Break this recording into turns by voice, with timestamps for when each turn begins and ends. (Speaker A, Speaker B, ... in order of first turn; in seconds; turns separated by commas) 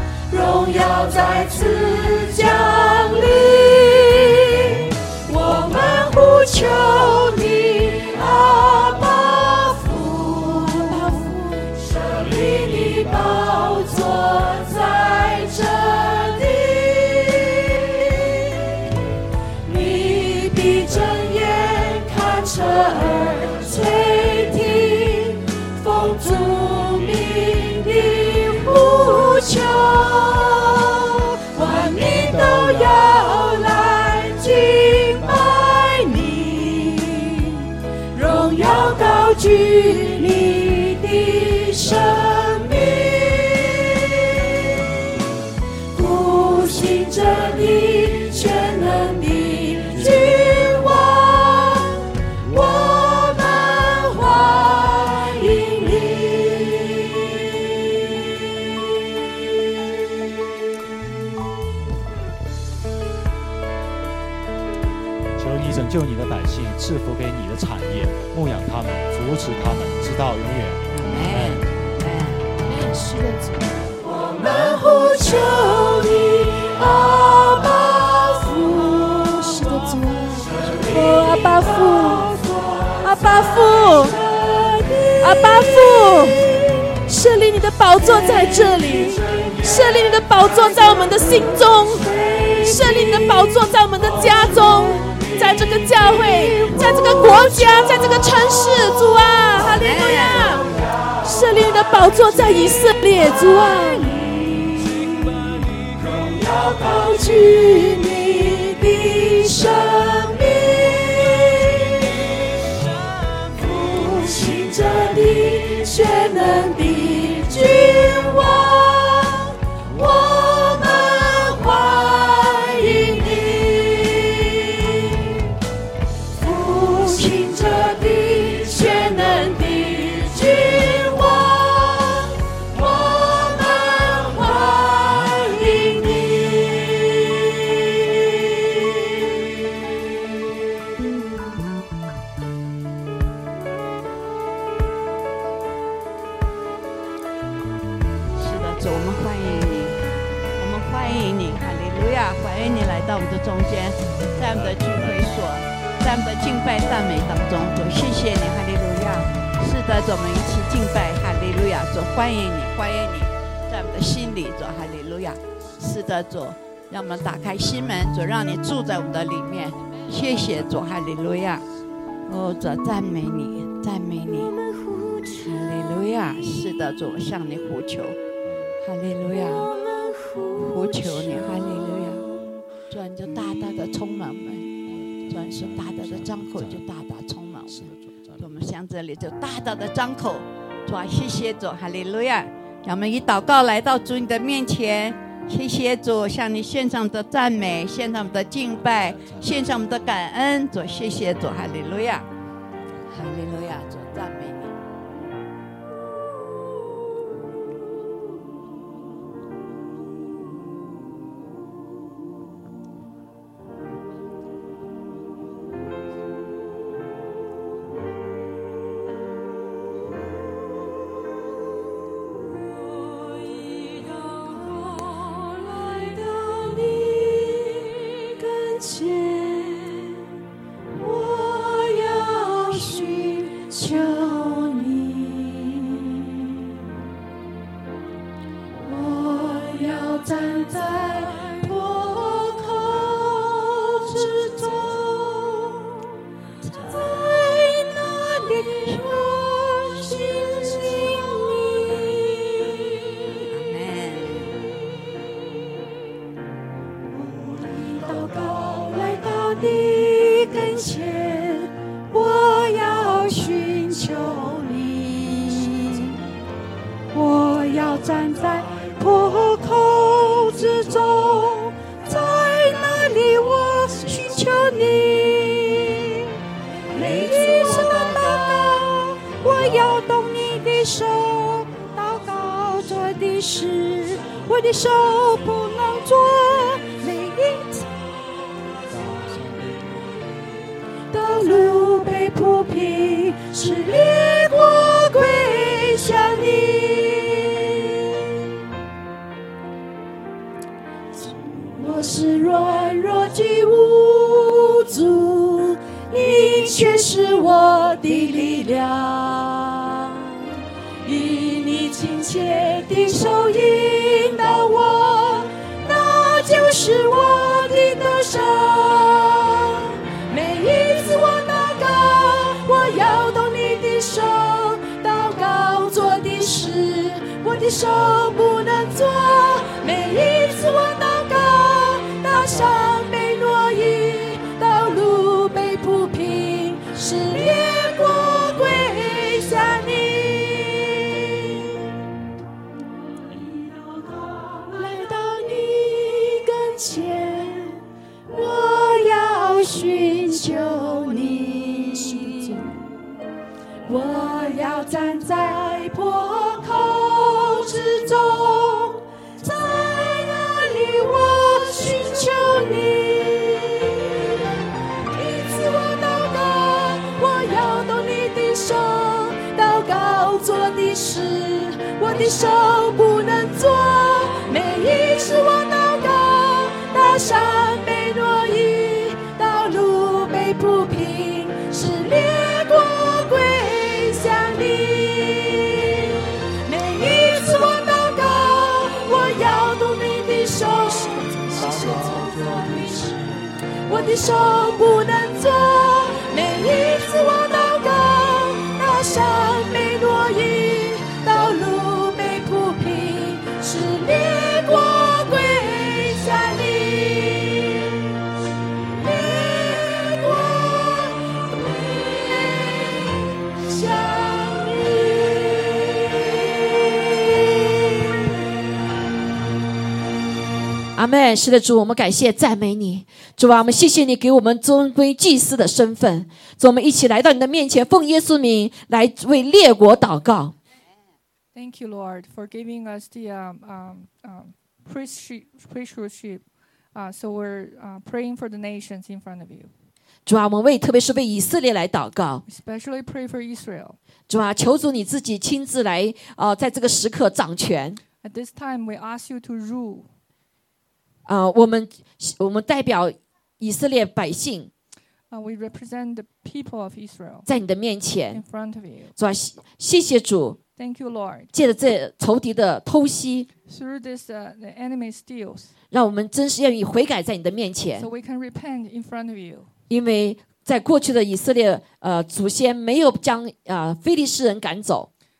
Speaker A: 0.3-18.4, Speaker A: 19.6-44.1, Speaker A: 45.9-57.4, Speaker B: 65.4-71.7, Speaker C: 70.9-72.5, Speaker A: 72.7-86.9, Speaker D: 80.8-82.3, Speaker D: 83.0-84.2, Speaker D: 85.2-86.4, Speaker D: 87.0-92.0, Speaker A: 88.0-99.2, Speaker D: 92.6-100.7, Speaker C: 99.5-100.6, Speaker D: 101.2-104.0, Speaker A: 103.2-112.0, Speaker A: 113.5-125.4, Speaker A: 126.4-137.5, Speaker C: 148.3-150.0, Speaker C: 150.6-171.6, Speaker B: 154.5-154.9, Speaker C: 172.3-174.5, Speaker A: 174.5-175.5, Speaker C: 175.4-178.2, Speaker B: 178.4-178.8, Speaker C: 178.8-179.7, Speaker A: 179.6-182.0, Speaker C: 180.6-182.3, Speaker C: 182.9-184.7, Speaker B: 184.8-186.8, Speaker C: 185.3-202.3, Speaker B: 187.7-188.5, Speaker B: 199.1-199.4, Speaker C: 203.1-204.8, Speaker A: 223.3-230.3, Speaker A: 230.9-236.2, Speaker A: 238.8-246.1, Speaker A: 246.6-253.4, Speaker C: 253.5-254.6, Speaker A: 257.1-266.1, Speaker A: 267.1-276.3, Speaker A: 276.9-287.9, Speaker B: 276.9-278.7, Speaker B: 279.6-280.0, Speaker B: 288.9-290.1, Speaker A: 291.1-297.8, Speaker A: 301.6-310.3, Speaker A: 311.0-341.7, Speaker A: 343.5-352.7, Speaker A: 353.9-364.1, Speaker A: 365.0-386.1, Speaker A: 386.6-407.9, Speaker B: 391.7-392.9, Speaker A: 408.9-412.9, Speaker A: 413.5-416.4, Speaker E: 420.9-430.5, Speaker F: 431.5-439.7, Speaker E: 440.2-442.4, Speaker F: 442.4-444.0, Speaker E: 444.3-448.0, Speaker F: 448.2-450.1, Speaker E: 451.2-454.7, Speaker F: 455.3-457.4, Speaker E: 457.4-458.4, Speaker F: 458.3-459.1, Speaker E: 459.1-460.6, Speaker F: 460.8-461.5, Speaker E: 461.5-463.5, Speaker F: 463.6-465.7, Speaker E: 465.9-468.1, Speaker F: 467.9-469.7, Speaker E: 469.9-475.1